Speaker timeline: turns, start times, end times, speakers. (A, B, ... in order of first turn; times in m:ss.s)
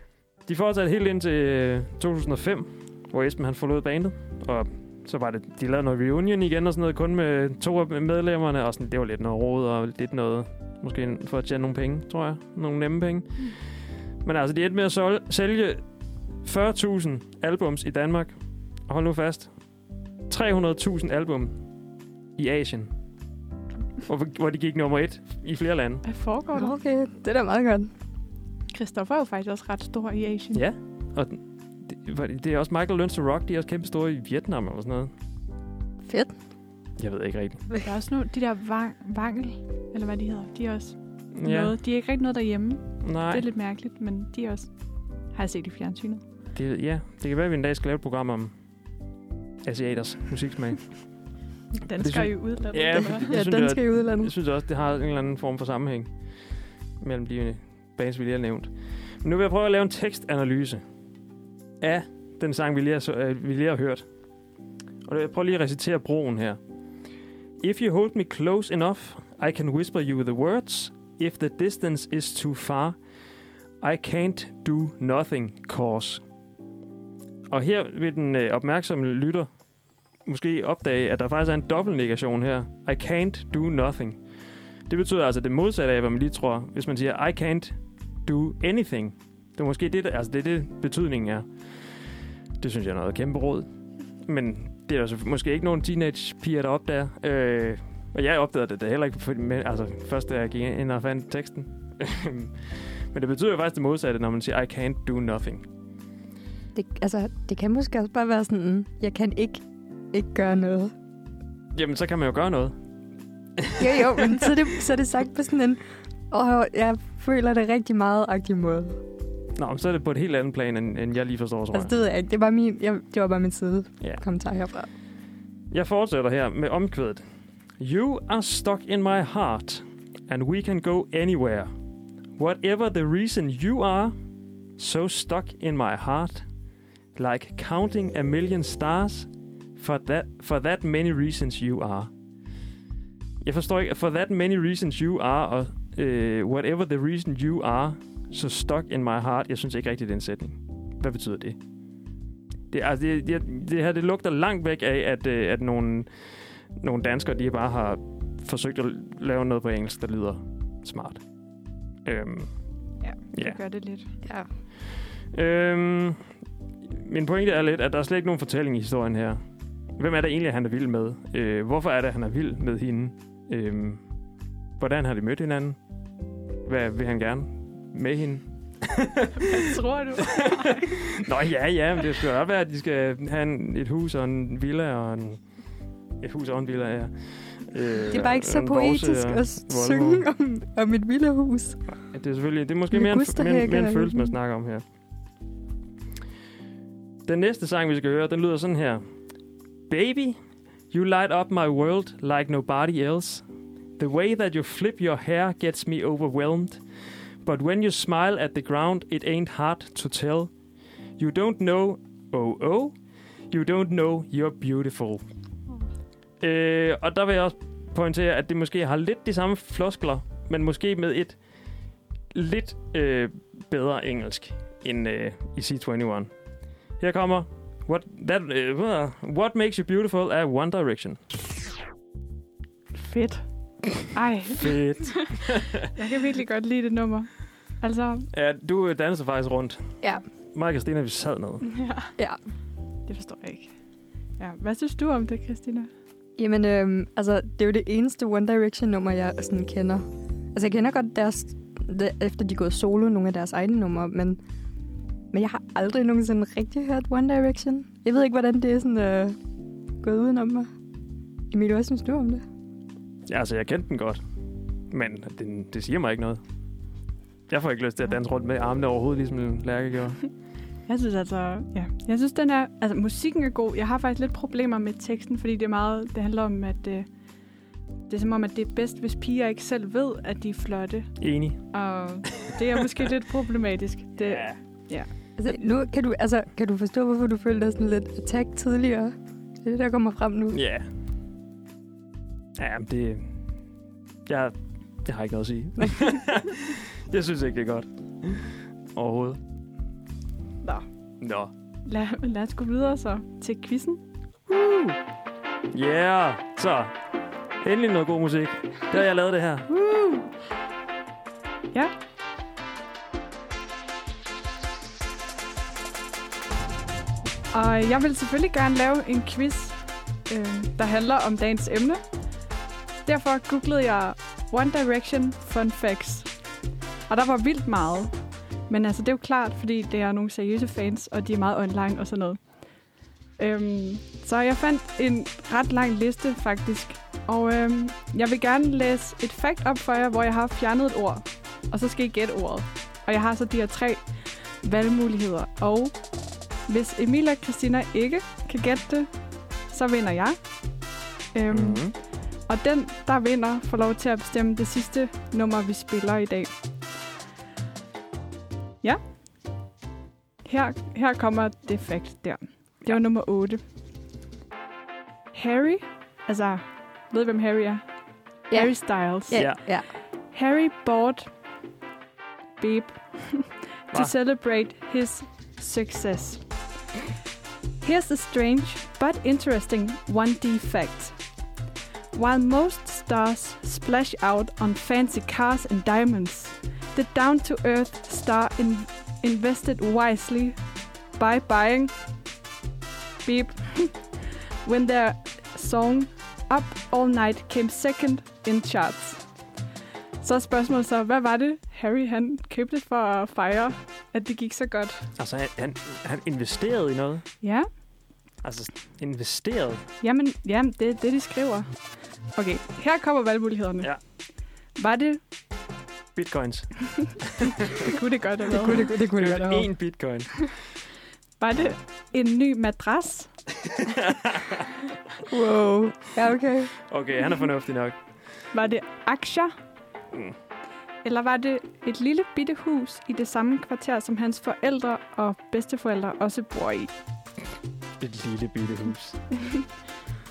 0:00.5-0:13.7 A
0:14.2-0:15.9 A
0:16.4-0:19.5 A
0:20.3-0:21.6 A
0:22.4-0:22.9 A
0:24.1-0:26.0 A
0:26.0-0:26.7 B
0:26.6-0:27.9 C
0:28.7-0:30.6 B
0:30.5-0:35.1 A
0:36.0-0:36.3 C
0:37.0-0:37.7 A
0:37.8-0:44.7 B
0:41.4-0:41.7 A
0:43.0-0:43.4 A
0:45.3-0:46.2 B
0:46.6-0:48.5 A
0:49.6-0:51.1 A
0:51.8-0:53.3 B
0:52.0-0:56.1 A
0:53.2-0:54.3 C
0:57.0-1:00.8 A
1:01.8-1:04.1 A
1:05.1-1:06.6 A
1:07.6-1:13.0 A
1:13.8-1:16.2 A
1:17.5-1:19.5 A
1:20.3-1:24.2 A
1:24.9-1:31.9 A
1:32.6-1:33.7 A
1:34.2-1:45.6 A
1:46.8-1:50.9 C
1:51.8-1:52.7 A
1:53.6-1:54.5 A
1:53.8-1:59.0 C
1:59.6-2:01.9 A
2:01.7-2:04.9 C
2:05.7-2:07.2 A
2:07.8-2:11.7 A
2:12.4-2:14.2 A
2:14.8-2:16.5 A
2:17.2-2:22.1 A
2:23.4-2:31.6 A
2:32.7-2:41.2 A
2:42.0-2:42.6 A
2:43.0-2:44.1 B
2:43.3-2:43.6 A
2:44.2-2:44.5 C
2:45.1-2:46.3 A
2:46.9-2:49.4 A
2:50.0-2:54.0 A
2:54.8-2:55.8 A
2:56.6-2:59.4 A
2:59.4-3:00.9 B
3:00.3-3:05.6 A
3:06.2-3:10.3 A
3:08.1-3:11.8 C
3:11.9-3:14.8 A
3:12.9-3:14.3 C
3:17.3-3:19.0 A
3:19.9-3:20.4 A
3:20.9-3:23.5 A
3:24.0-3:26.8 A
3:27.4-3:30.5 A
3:31.2-3:35.2 A
3:36.4-3:46.3 A
3:46.8-3:51.2 A
3:53.0-3:54.8 B
3:54.6-3:55.9 A
3:56.0-3:58.3 B
3:58.3-4:01.8 A
4:01.7-4:02.1 B
4:03.1-4:03.8 B
4:04.4-4:05.9 B
4:06.4-4:14.4 C
4:15.3-4:19.4 C
4:20.0-4:20.7 C
4:21.5-4:22.4 C
4:23.3-4:24.2 A
4:24.9-4:26.4 A
4:27.5-4:30.3 A
4:30.9-4:37.1 B
4:38.1-4:41.2 B
4:41.2-4:41.6 A
4:41.7-4:45.1 B
4:45.4-4:50.6 C
4:50.5-4:50.9 A
4:52.6-4:53.4 A
4:54.3-4:59.4 A
5:01.2-5:01.5 A
5:01.8-5:04.0 B
5:05.7-5:07.0 A
5:07.6-5:09.7 A
5:09.8-5:10.2 C
5:17.5-5:22.0 B
5:23.0-5:26.4 B
5:27.1-5:28.2 B
5:28.7-5:32.8 B
5:33.4-5:46.0 B
5:46.7-5:49.1 B
5:49.7-5:50.4 B
5:51.3-5:56.5 B
5:51.5-5:51.9 A
6:00.4-6:03.6 B
6:05.3-6:07.9 B
6:08.5-6:09.7 B
6:08.5-6:09.9 C
6:09.4-6:09.6 A
6:10.3-6:11.3 B
6:12.6-6:16.4 B
6:17.8-6:21.3 B
6:22.1-6:30.6 B
6:31.1-6:31.9 B
6:33.2-6:34.1 B
6:34.6-6:39.3 B
6:40.2-6:45.1 B
6:45.2-6:47.3 A
6:47.4-6:47.7 B
6:48.4-6:49.8 A
6:50.0-6:53.9 B
6:54.8-6:55.2 B
6:56.2-6:57.9 A
6:57.8-6:58.9 B
6:58.6-6:59.7 C
6:59.1-7:00.7 A
7:01.4-7:03.3 B
7:03.7-7:04.7 A
7:05.3-7:06.7 C
7:06.9-7:08.0 A
7:08.5-7:09.5 B
7:11.0-7:16.9 B
7:18.0-7:19.3 A